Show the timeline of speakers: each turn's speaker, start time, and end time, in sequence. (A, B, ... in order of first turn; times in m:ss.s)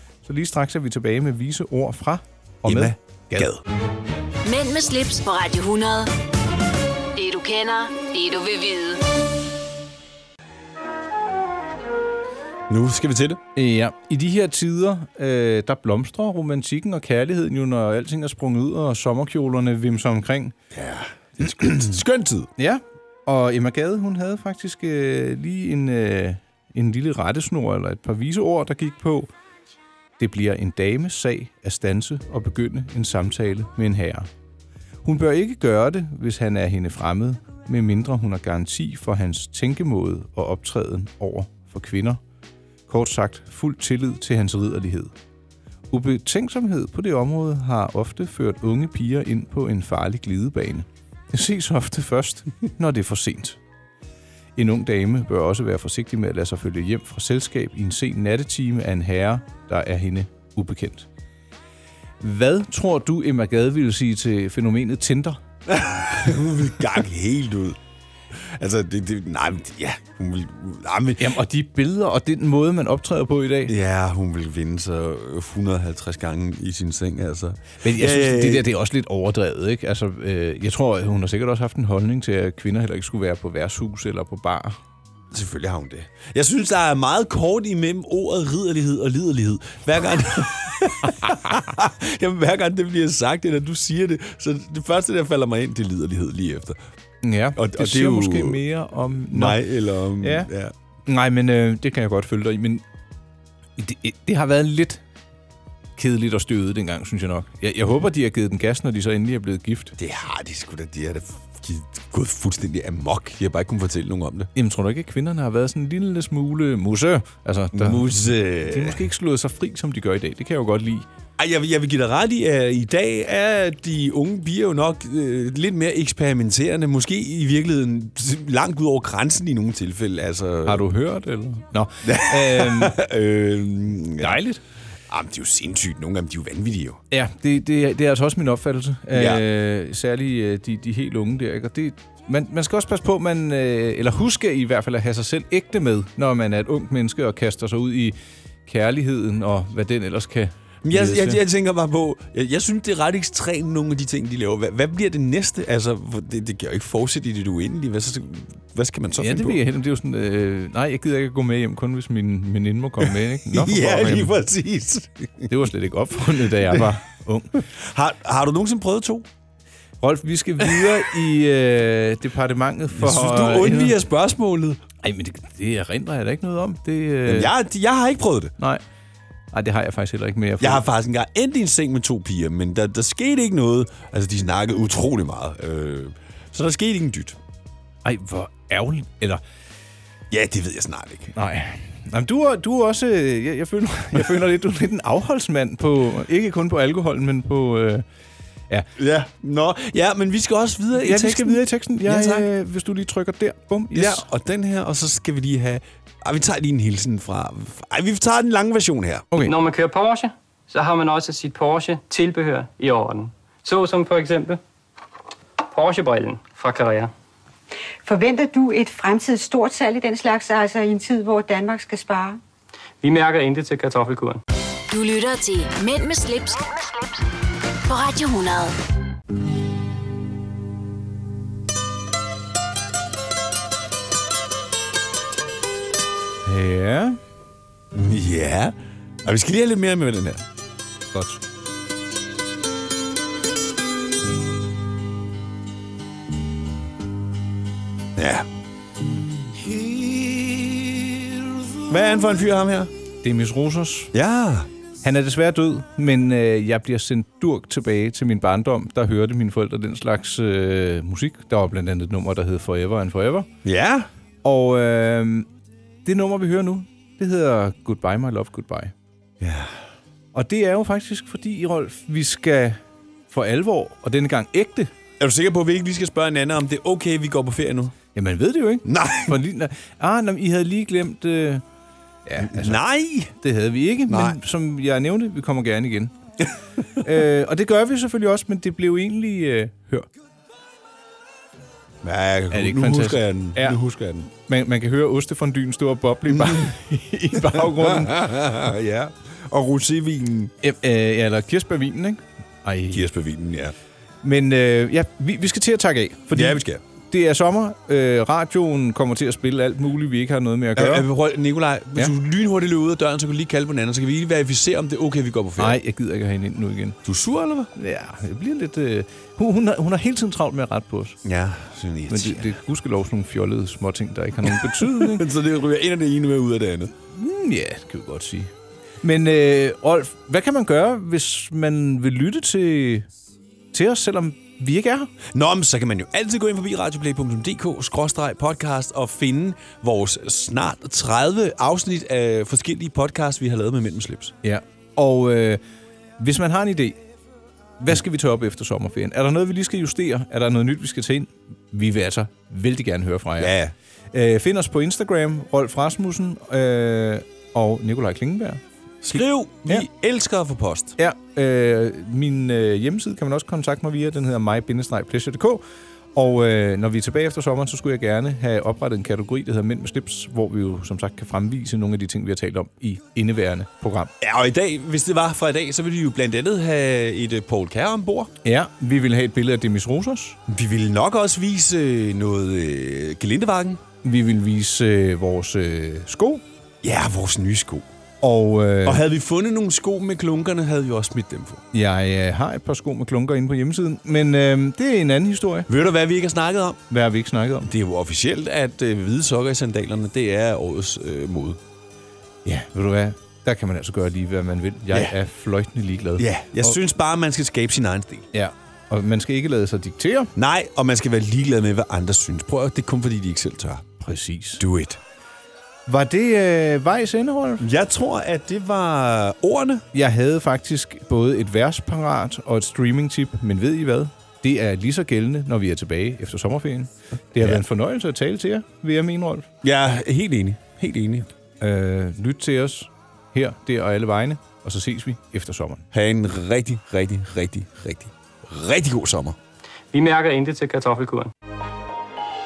0:00.2-0:03.5 A
0:02.6-0:03.6 B
0:04.4-0:06.1 C
0:07.2-0:09.1 C
0:12.7-0:13.4 B
0:13.6-0:20.6 A
0:20.7-0:22.5 B
0:22.6-0:29.3 A
0:30.2-0:34.3 A
0:35.0-0:42.2 A
0:42.9-0:45.1 A
0:45.9-0:53.6 A
0:54.6-1:01.1 A
1:02.2-1:05.4 A
1:05.7-1:07.8 B
1:08.4-1:11.4 B
1:11.2-1:13.7 A
1:13.7-1:18.7 B
1:17.8-1:24.8 A
1:25.3-1:36.8 B
1:37.2-1:39.6 A
1:37.6-1:38.6 B
1:39.3-1:40.7 B
1:40.2-1:40.5 A
1:41.1-1:42.8 A
1:43.8-1:45.0 A
1:46.0-1:50.0 A
1:50.0-1:54.5 B
1:54.6-2:01.1 A
1:57.7-1:59.1 B
2:01.4-2:10.8 B
2:10.7-2:13.0 A
2:12.0-2:14.4 B
2:14.2-2:14.6 A
2:15.1-2:17.0 B
2:17.1-2:31.4 A
2:19.1-2:19.4 B
2:30.8-2:39.6 B
2:39.2-2:44.3 A
2:43.0-2:45.5 B
2:45.5-2:47.6 A
2:46.6-2:47.0 B
2:47.7-2:49.3 B
2:50.0-2:54.0 A
2:50.6-2:51.0 B
2:53.0-2:54.8 B
2:55.0-2:57.5 A
2:57.3-2:58.5 B
2:59.5-3:00.8 A
3:00.6-3:07.4 B
3:08.0-3:09.4 A
3:10.3-3:11.3 B
3:11.3-3:18.0 A
3:19.0-3:22.5 B
3:21.0-3:24.2 A
3:23.9-3:29.3 B
3:29.4-3:34.6 D
3:35.7-3:37.1 D
3:38.0-3:42.4 E
3:43.0-3:44.4 D
3:44.9-3:46.9 C
3:47.9-3:48.8 C
3:56.4-3:57.2 A
3:57.9-4:00.4 B
4:01.1-4:01.4 A
4:08.2-4:08.5 B
4:11.9-4:12.9 B
4:13.2-4:14.1 A
4:14.1-4:14.7 B
4:15.0-4:23.5 A
4:23.6-4:24.1 B
4:24.4-4:25.5 A
4:26.0-4:28.9 A
4:29.4-4:29.8 B
4:30.3-4:32.8 A
4:33.3-4:34.9 A
4:35.2-4:38.0 B
4:38.2-4:41.6 A
4:38.8-4:39.4 B
4:42.3-4:42.8 A
4:42.4-4:43.3 B
4:43.3-4:46.1 A
4:44.1-4:44.4 B
4:47.0-4:50.1 A
4:52.0-4:54.3 B
4:52.5-4:53.8 A
4:54.3-4:58.3 A
4:56.3-4:56.7 B
4:57.4-5:00.5 B
5:00.6-5:03.1 A
5:02.9-5:03.8 B
5:04.2-5:11.1 A
5:06.3-5:06.8 B
5:10.8-5:15.8 B
5:15.6-5:17.0 A
5:17.0-5:17.7 B
5:17.8-5:21.2 A
5:21.2-5:22.5 B
5:22.1-5:25.2 A
5:24.4-5:26.9 B
5:27.1-5:28.5 A
5:29.0-5:33.1 A
5:33.7-5:35.1 A
5:35.3-5:44.4 B
5:44.4-5:45.6 A
5:46.2-5:47.0 A
5:47.8-5:53.6 A
5:53.4-5:53.7 B
5:54.1-5:59.9 A
5:59.0-6:01.0 B
6:01.0-6:05.6 A
6:06.2-6:14.1 A
6:14.2-6:18.3 B
6:18.4-6:20.4 A
6:20.5-6:23.8 B
6:24.0-6:26.4 A
6:26.8-6:27.9 B
6:28.2-6:29.1 A
6:28.8-6:31.6 B
6:31.7-6:35.7 A
6:35.7-6:36.8 B
6:36.9-6:37.7 A
6:37.6-6:41.6 B
6:42.4-6:46.8 A
6:46.2-6:48.3 B
6:48.3-6:50.3 A
6:50.4-6:53.9 B
6:54.0-6:54.6 A
6:54.6-6:55.0 B
6:55.9-6:57.6 A
6:57.6-6:59.8 B
6:59.9-7:09.5 A
7:07.4-7:07.6 B
7:09.6-7:11.3 B
7:11.6-7:15.8 A
7:15.9-7:19.4 B
7:19.9-7:21.3 D